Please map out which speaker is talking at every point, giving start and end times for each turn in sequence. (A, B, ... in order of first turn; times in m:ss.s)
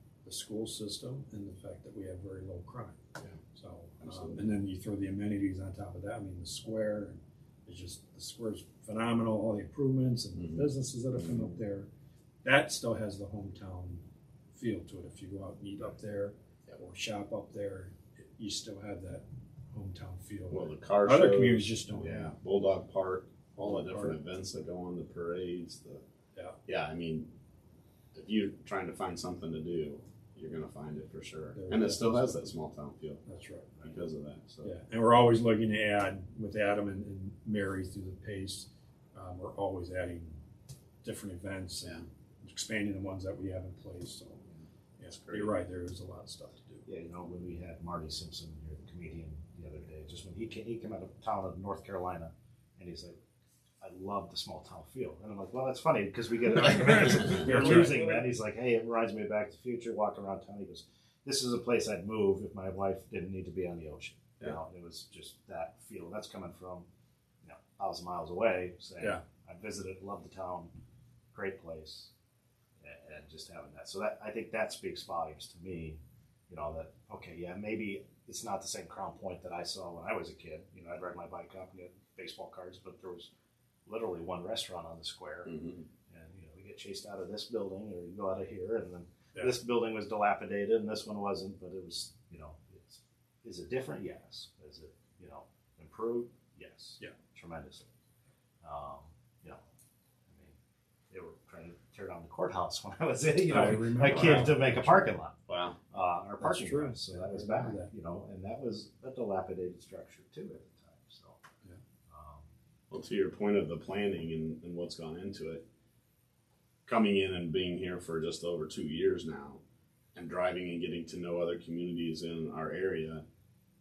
0:00.2-0:11.9 A
0:04.0-0:04.5 B
0:10.4-0:11.5 B
0:12.4-0:14.0 A
0:14.5-0:22.3 A
0:20.5-0:26.0 B
0:23.5-0:24.2 A
0:26.7-0:27.3 B
0:28.1-0:33.2 B
0:31.5-0:32.5 A
0:33.2-0:34.0 A
0:33.8-0:34.7 B
0:34.6-0:40.4 A
0:41.0-0:44.4 A
0:44.5-0:45.5 B
0:45.0-0:46.8 A
0:46.8-0:53.2 C
0:53.8-1:06.9 C
0:57.3-0:58.2 A
1:07.4-1:10.7 C
1:11.3-1:12.1 C
1:12.8-1:23.3 C
1:23.8-1:25.5 C
1:25.4-1:25.9 B
1:26.1-1:37.9 C
1:38.6-1:39.6 C
1:40.3-1:40.6 C
1:41.1-1:45.4 C
1:43.5-1:45.2 A
1:44.0-1:44.6 B
1:45.5-1:45.8 B
1:45.9-1:51.4 C
1:46.4-1:47.9 A
1:52.1-1:52.5 C
1:52.9-1:55.6 B
1:56.8-1:59.6 B
2:00.1-2:03.2 B